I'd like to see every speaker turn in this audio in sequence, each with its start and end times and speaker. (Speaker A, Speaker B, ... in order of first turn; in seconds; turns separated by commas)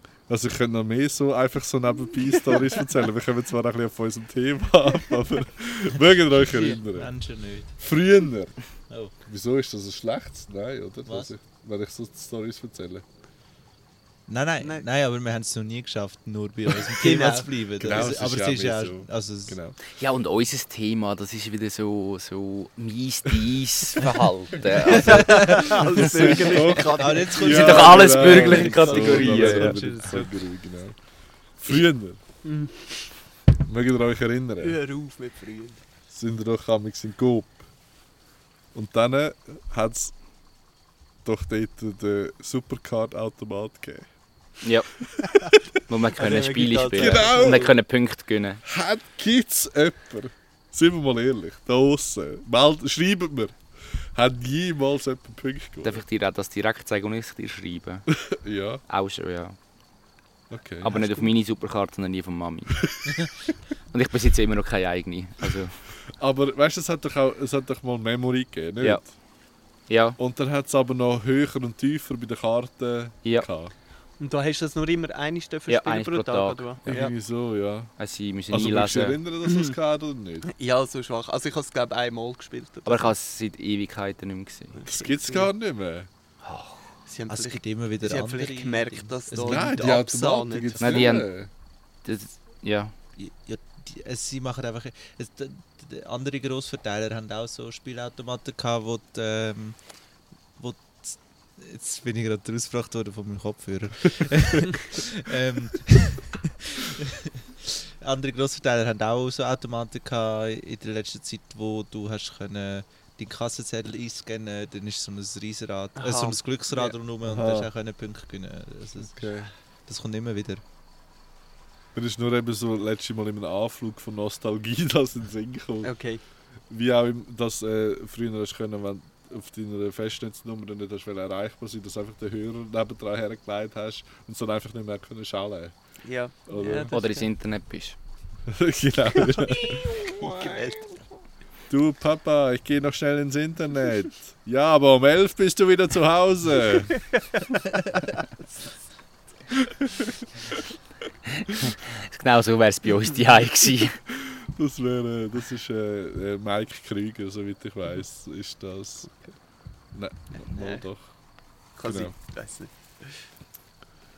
Speaker A: 0.3-7.1, Speaker B: 6.5-7.8, Speaker A: 7.8-8.6, Speaker B: 8.9-9.2, Speaker A: 9.2-13.1, Speaker B: 11.1-11.3, Speaker B: 14.3-19.6, Speaker C: 14.6-14.9, Speaker C: 17.0-18.0, Speaker A: 17.8-19.8, Speaker D: 19.9-26.6, Speaker C: 24.8-30.4, Speaker A: 26.0-31.0, Speaker B: 27.0-27.8, Speaker D: 27.4-29.8, Speaker A: 31.6-32.2, Speaker C: 32.4-33.1, Speaker A: 33.7-34.8, Speaker C: 34.6-35.8, Speaker A: 36.1-37.6, Speaker A: 38.7-40.1, Speaker A: 41.2-44.1, Speaker D: 44.6-44.9, Speaker D: 45.9-48.6, Speaker C: 46.2-47.7, Speaker A: 47.0-47.7, Speaker A: 48.6-56.0, Speaker D: 55.8-58.3, Speaker A: 58.3-58.8, Speaker D: 58.9-59.6, Speaker A: 60.5-61.0, Speaker D: 60.8-63.3, Speaker C: 60.9-61.3, Speaker D: 63.9-65.9, Speaker A: 66.2-69.1, Speaker D: 68.8-69.1, Speaker D: 69.9-70.2, Speaker A: 70.2-73.7, Speaker C: 74.2-77.1, Speaker D: 75.7-76.8, Speaker A: 76.9-77.9, Speaker D: 78.0-79.2, Speaker A: 78.5-80.5, Speaker C: 79.5-79.8, Speaker C: 80.5-83.1, Speaker D: 82.9-84.8, Speaker C: 84.8-85.5, Speaker A: 84.9-86.1, Speaker C: 87.0-91.1, Speaker B: 87.3-89.9, Speaker A: 89.4-91.5, Speaker D: 90.8-91.3, Speaker D: 92.0-92.9, Speaker B: 93.2-99.9, Speaker B: 100.6-107.1, Speaker B: 108.0-119.3, Speaker C: 116.0-117.0, Speaker A: 117.2-117.7, Speaker A: 119.0-119.5, Speaker B: 119.9-120.6, Speaker A: 122.0-125.9, Speaker C: 125.8-126.2, Speaker A: 126.7-135.7, Speaker C: 136.0-137.3, Speaker A: 136.5-136.9, Speaker D: 136.9-138.0, Speaker A: 138.5-139.8, Speaker C: 139.3-141.0, Speaker D: 140.3-140.6, Speaker A: 141.7-147.0, Speaker D: 151.4-154.0, Speaker A: 154.2-159.1, Speaker A: 159.9-161.1, Speaker C: 160.4-160.8, Speaker A: 161.7-162.2, Speaker C: 161.8-163.3